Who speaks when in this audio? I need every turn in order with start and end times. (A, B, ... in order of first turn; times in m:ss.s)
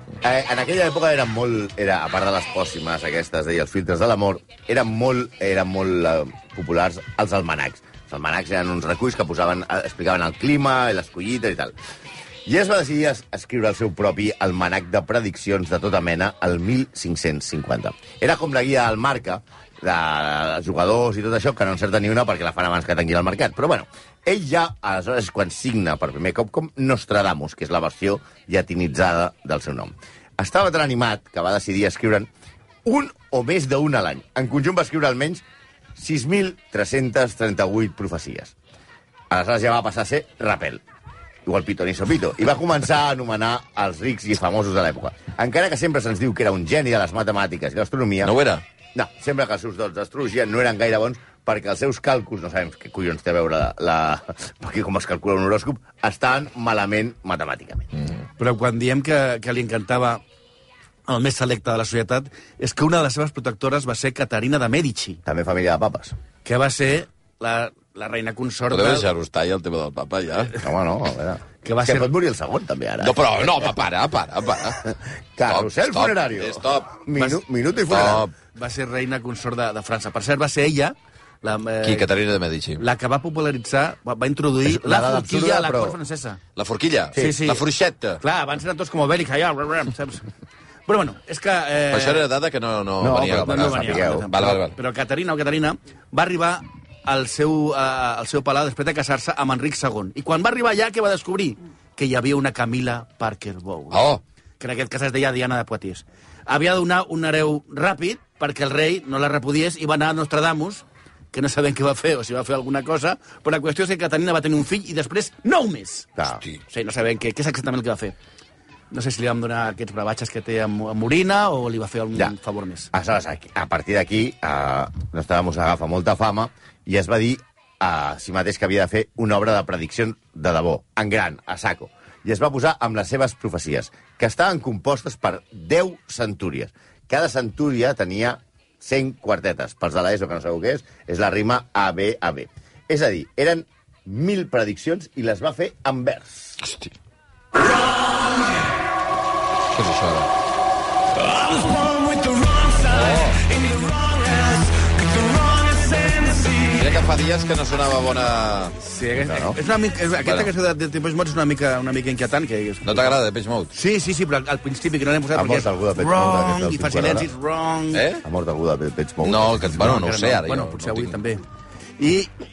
0:00.2-0:11.8 A
0:12.5-0:32.3 A
0:32.8-0:35.4 A
0:36.0-0:38.5 A
0:39.3-0:40.8 A
0:41.5-0:48.4 A
0:48.2-0:48.6 B
0:49.0-0:57.9 A
0:58.4-1:00.2 C
1:01.1-1:05.2 C
1:05.2-1:06.2 A
1:06.4-1:09.1 C
1:08.7-1:10.5 B
1:10.6-1:13.7 A
1:11.6-1:12.1 C
1:13.0-1:14.9 B
1:14.8-1:18.2 A
1:15.5-1:17.1 B
1:17.8-1:18.3 B
1:18.5-1:22.1 C
1:21.8-1:22.8 B
1:22.8-1:26.4 C
1:24.6-1:26.0 A
1:26.6-1:28.2 B
1:27.1-1:27.4 A
1:27.2-1:27.6 C
1:28.2-1:30.3 C
1:30.9-1:32.3 C
1:31.9-1:34.8 B
1:33.0-1:34.3 A
1:33.2-1:44.0 C
1:43.9-1:44.2 B
1:44.6-1:56.1 C
1:56.2-1:56.4 A
1:56.7-1:58.2 C
1:58.9-2:02.9 C
2:02.9-2:26.6 A
2:26.6-2:26.9 B
2:29.7-2:30.3 B
2:31.3-2:36.8 C
2:32.9-2:33.4 B
2:36.6-2:38.8 B
2:38.8-2:43.2 C
2:39.2-2:39.6 A
2:40.2-2:40.5 B
2:42.8-2:43.7 B
2:43.7-2:48.1 C
2:45.3-2:47.3 A
2:47.9-2:48.2 B
2:48.2-2:49.6 A
2:49.2-2:51.2 B
2:49.6-2:51.4 C
2:52.0-2:52.3 C